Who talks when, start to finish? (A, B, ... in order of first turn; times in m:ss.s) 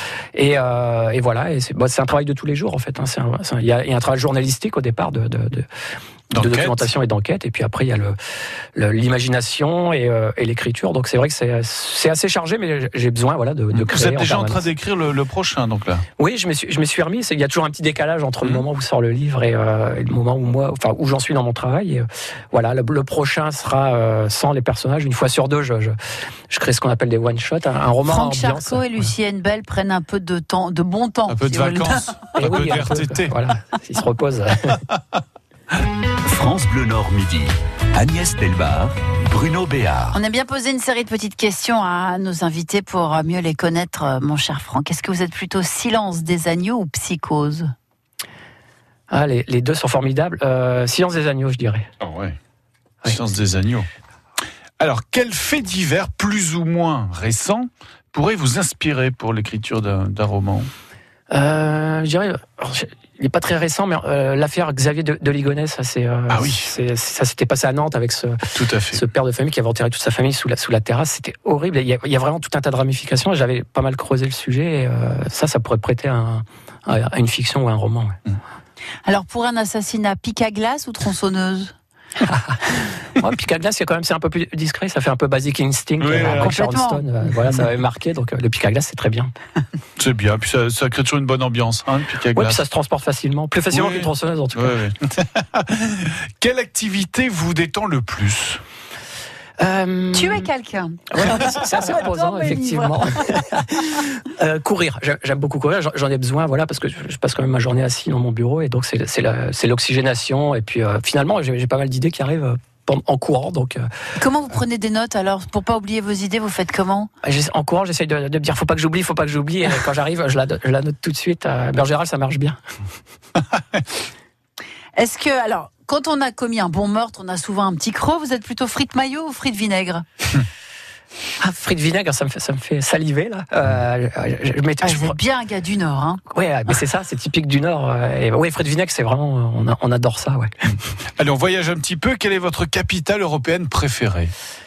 0:00.3-0:05.6 A
0:06.3-0:08.2 A
0:06.3-0:06.9 B
0:08.8-0:14.6 A
0:13.7-0:16.0 B
0:16.2-0:26.0 A
0:26.5-0:29.1 A
0:28.1-0:32.1 C
0:31.3-0:33.3 B
0:32.4-0:34.8 A
0:36.2-0:40.2 D
0:40.1-0:47.7 C
0:49.1-0:51.9 A
0:52.0-0:52.4 B
0:53.0-0:53.9 B
0:54.8-1:00.7 B
1:01.3-1:08.4 A
1:06.3-1:06.7 B
1:08.5-1:09.0 B
1:08.9-1:18.1 A
1:19.0-1:21.7 C
1:22.2-1:29.3 A
1:26.0-1:26.6 B
1:26.1-1:27.0 C
1:30.0-1:32.6 B
1:32.3-1:34.8 A
1:33.7-1:38.6 B
1:39.6-1:40.5 A
1:40.1-1:43.4 C
1:41.1-1:53.8 A
1:54.2-1:57.1 C
1:57.2-2:02.6 A
2:05.0-2:10.0 C
2:11.4-2:15.1 A
2:14.8-2:16.8 C
2:16.3-2:20.5 A
2:21.2-2:24.3 B